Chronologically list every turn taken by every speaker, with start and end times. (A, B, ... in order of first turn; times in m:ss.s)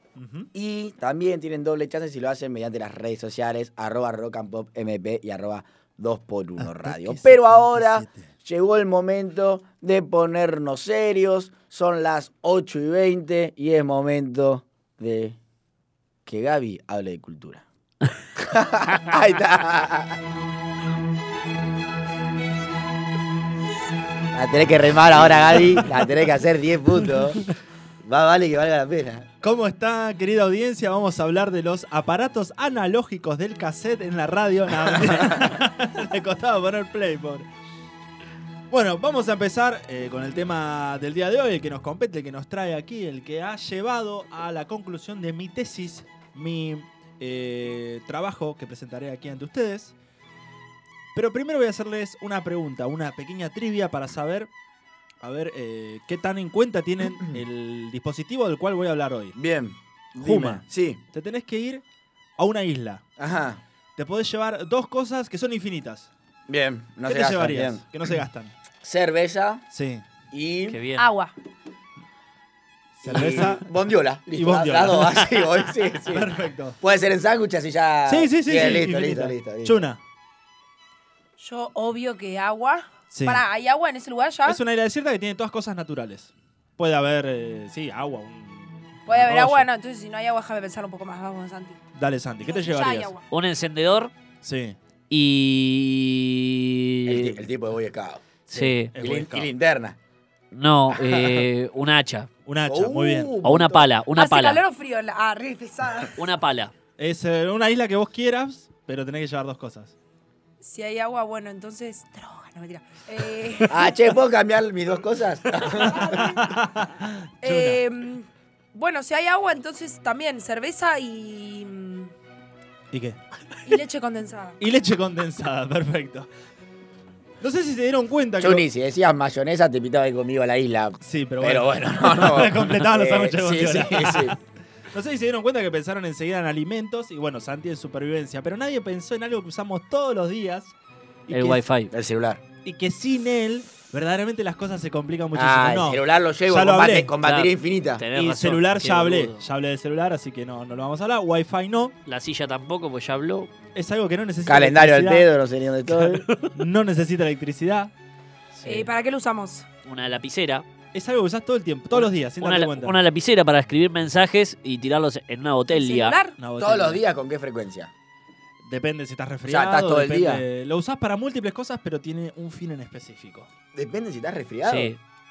0:00.2-0:00.5 A
0:00.5-0:15.4 B
0:06.6-0:08.3 A
0:16.3-0:17.6 B
0:18.4-0:20.2 B
0:24.3-0:29.3 B
0:29.4-0:37.4 A
0:38.7-0:50.0 A
0:51.1-0:54.5 A
0:55.2-0:59.4 A
0:59.4-1:01.0 B
1:00.2-1:01.8 A
1:02.4-1:03.0 A
1:03.2-1:03.6 B
1:04.0-1:06.1 A
1:06.5-1:07.8 B
1:07.0-1:08.6 A
1:08.8-1:09.6 B
1:09.7-1:10.0 A
1:10.3-1:10.8 B
1:10.7-1:11.1 C
1:11.0-1:11.3 D
1:13.0-1:13.6 A
1:13.0-1:19.9 B
1:14.3-1:15.3 A
1:16.0-1:16.8 A
1:18.1-1:20.0 A
1:21.4-1:24.6 D
1:23.1-1:23.4 A
1:24.5-1:29.7 A
1:29.1-1:31.8 D
1:31.9-1:33.1 A
1:32.4-1:33.2 D
1:33.3-1:34.1 C
1:34.4-1:34.8 A
1:35.1-1:37.4 C
1:37.1-1:38.2 B
1:38.5-1:38.9 C
1:38.5-1:39.5 A
1:39.0-1:40.0 B
1:40.5-1:42.3 C
1:40.9-1:41.4 B
1:42.5-1:43.3 A
1:42.7-1:43.9 B
1:43.4-1:44.6 C
1:44.2-1:46.2 D
1:46.2-1:46.7 C
1:47.0-1:49.9 A
1:50.6-1:54.0 D
1:53.7-1:56.2 B
1:55.6-1:56.6 D
1:55.9-1:57.8 A
1:57.4-2:02.1 D
2:02.9-2:03.2 A
2:03.6-2:04.6 D
2:04.6-2:06.3 A
2:07.4-2:08.7 A
2:08.4-2:14.4 B
2:11.0-2:14.4 A
2:14.9-2:20.8 A
2:21.3-2:21.6 A
2:21.3-2:21.9 C
2:21.9-2:22.4 B
2:22.6-2:27.1 A
2:25.3-2:28.0 B
2:27.2-2:29.4 C
2:28.1-2:32.0 A
2:32.1-2:33.5 C
2:33.8-2:35.3 A
2:34.5-2:36.3 B
2:35.9-2:37.9 A
2:38.6-2:38.9 C
2:38.7-2:39.7 D
2:39.8-2:40.7 C
2:40.9-2:43.0 A
2:41.9-2:46.2 C
2:45.7-2:46.4 D
2:46.4-2:47.0 A
2:46.6-2:47.9 B
2:48.6-2:53.5 A
2:49.4-2:50.4 B
2:53.7-2:54.9 B
2:54.6-2:55.0 C